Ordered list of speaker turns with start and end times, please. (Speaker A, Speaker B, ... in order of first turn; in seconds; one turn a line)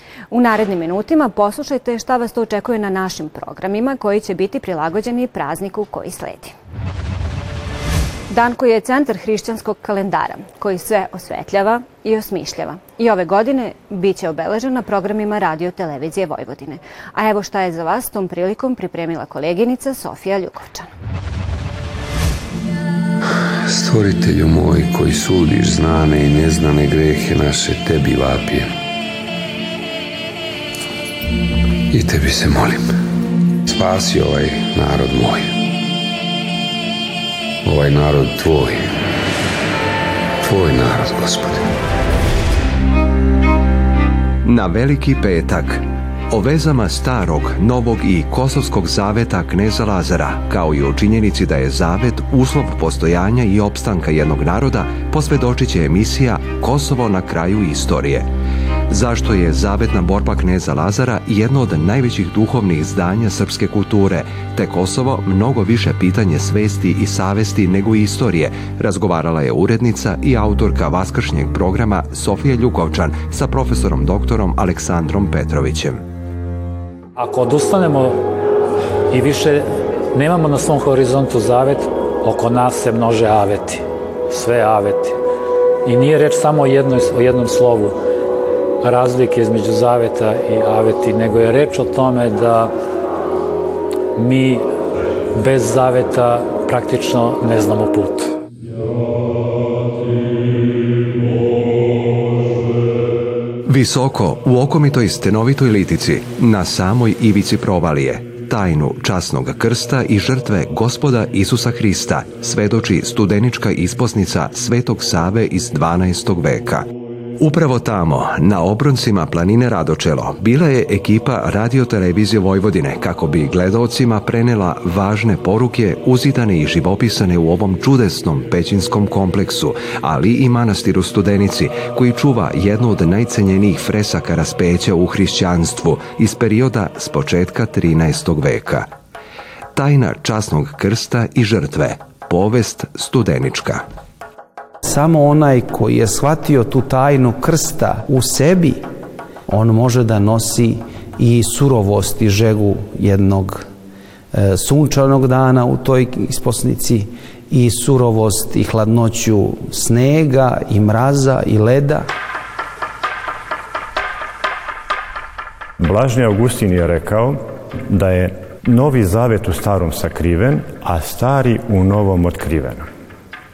Speaker A: 0.3-6.5
Speaker A: 8.3-20.9
Speaker B: 23.6-28.7
Speaker B: 31.9-32.9
Speaker B: 33.7-35.5
Speaker B: 37.6-38.9
Speaker B: 40.4-41.6
Speaker C: 44.4-58.3
Speaker C: 58.9-76.0
Speaker D: 77.2-78.2
Speaker D: 79.1-85.2
Speaker D: 85.8-88.0
Speaker D: 88.8-92.7
Speaker D: 94.2-94.7
Speaker D: 95.3-98.3
Speaker C: 103.7-116.8
Speaker C: 117.4-138.9
Speaker C: 139.8-143.8
Speaker E: 144.8-148.8
Speaker E: 149.5-153.7
Speaker E: 154.3-162.1
Speaker F: 165.8-172.9